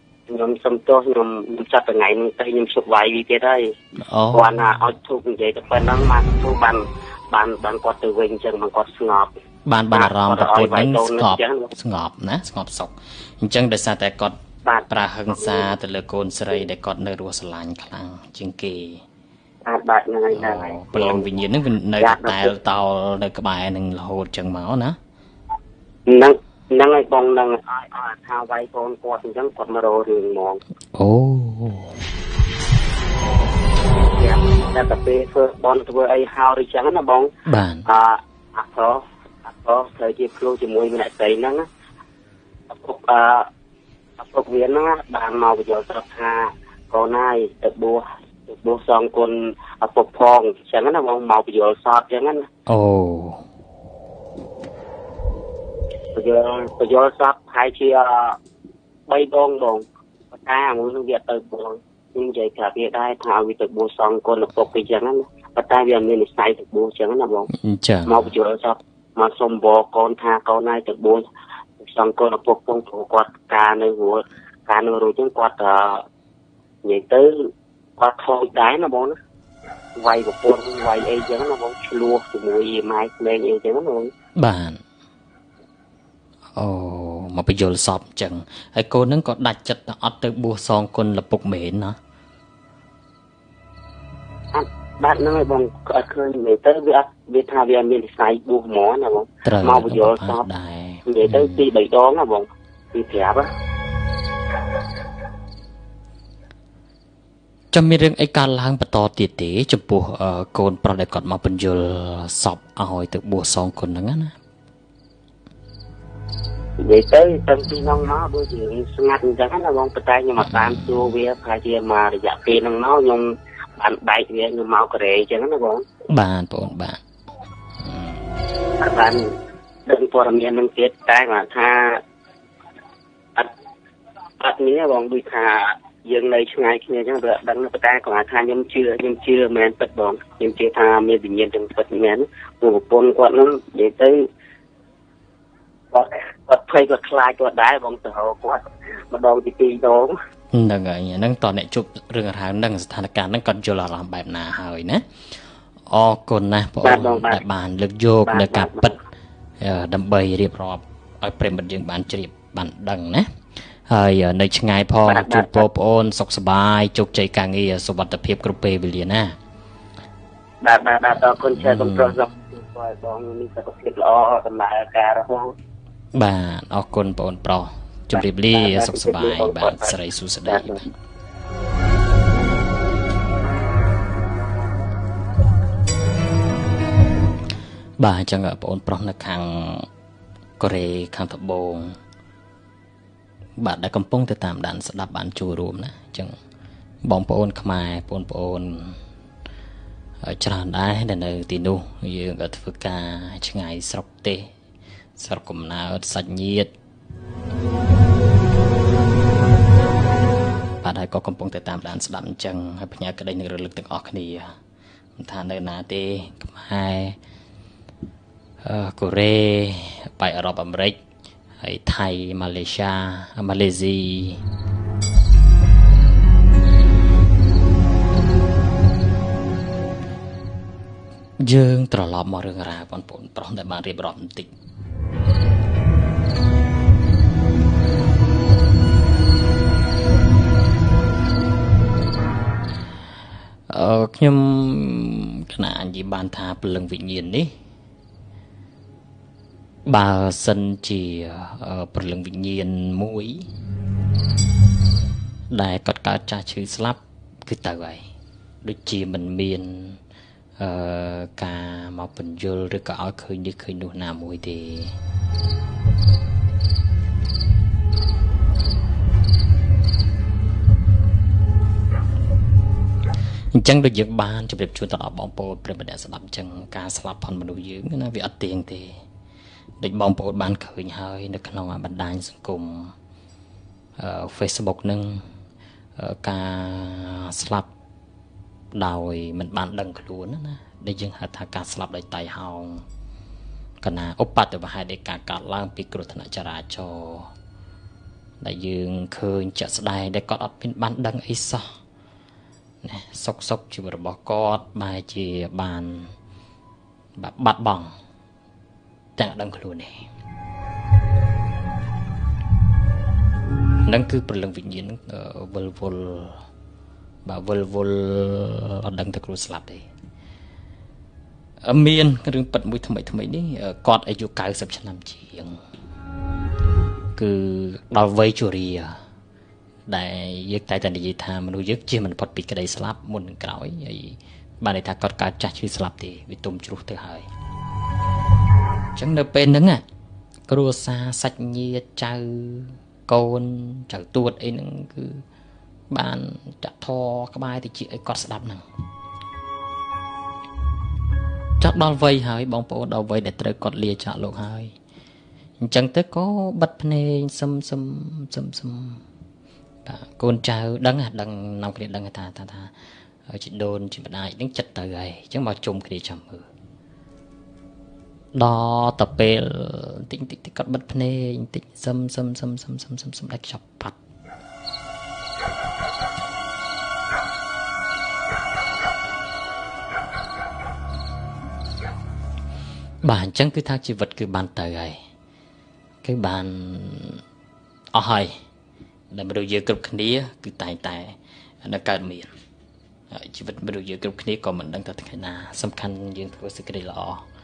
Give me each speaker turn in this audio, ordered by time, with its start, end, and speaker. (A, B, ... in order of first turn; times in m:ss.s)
0:00.3-0:03.7 A
0:04.0-0:04.6 B
0:04.3-0:09.3 A
0:09.7-0:14.4 B
0:09.9-0:11.7 A
0:14.7-0:15.7 A
0:14.9-0:19.0 B
0:19.6-0:21.3 A
0:20.3-0:25.0 B
0:22.0-0:22.6 A
0:26.1-0:30.6 A
0:30.9-0:32.0 B
0:34.1-0:37.3 A
0:37.5-0:37.9 B
0:37.9-0:41.7 A
0:42.7-0:43.5 A
0:44.2-0:52.5 A
0:52.7-0:53.4 B
0:56.2-0:58.4 A
0:59.1-0:59.8 A
1:00.4-1:07.5 A
1:07.5-1:08.3 B
1:08.1-1:11.2 A
1:11.8-1:16.0 A
1:16.8-1:19.2 A
1:20.0-1:24.1 A
1:24.4-1:24.8 B
1:26.6-1:32.0 B
1:34.5-1:40.4 A
1:39.4-1:41.6 B
1:41.1-1:43.5 A
1:47.7-1:54.3 B
1:56.8-2:05.8 A
2:00.4-2:01.1 B
2:06.1-2:07.0 B
2:07.8-2:08.2 B
2:08.8-2:09.3 A
2:09.9-2:12.0 A
2:14.4-2:24.3 A
2:25.9-2:30.2 A
2:30.5-2:35.0 B
2:35.9-2:39.0 B
2:36.8-2:37.4 A
2:38.3-2:39.0 A
2:39.6-2:43.3 B
2:43.9-2:49.4 B
2:45.0-2:45.6 A
2:50.6-2:55.5 A
2:51.1-2:52.2 B
2:56.2-3:00.9 B
2:58.5-3:00.8 A
3:08.0-3:09.9 B
3:10.6-3:12.0 B
3:13.6-3:16.4 B
3:17.0-3:19.0 B
3:20.2-3:24.5 B
3:25.2-3:26.7 B
3:30.8-3:34.6 B
3:35.2-3:37.2 B
3:38.6-3:41.0 B
3:41.6-3:44.4 B
3:51.4-3:54.5 B
4:03.7-4:07.5 B
4:09.9-4:13.5 B
4:15.5-4:18.1 B
4:18.6-4:20.0 B
4:20.6-4:24.9 B
4:33.5-4:39.0 B
4:39.8-4:42.9 B
4:44.0-4:45.2 B
4:46.0-4:47.7 B
4:48.7-4:52.8 B
4:53.8-4:57.3 B
4:58.4-5:01.7 B
5:02.8-5:06.1 B
5:07.2-5:07.9 B
5:09.2-5:10.1 B
5:13.8-5:16.4 B
5:17.2-5:19.9 B
5:21.6-5:25.6 B
5:27.2-5:29.0 B
5:29.9-5:37.3 B
5:39.0-5:39.8 B
5:40.5-5:45.2 B
5:45.9-5:48.7 B
5:51.6-5:54.7 B
5:55.6-5:59.0 B
5:59.8-6:02.7 B
6:03.3-6:06.5 B
6:08.3-6:14.0 B
6:23.0-6:25.0 B
6:26.0-6:27.2 B
6:27.9-6:28.4 B
6:29.1-6:32.3 B
6:33.1-6:37.2 B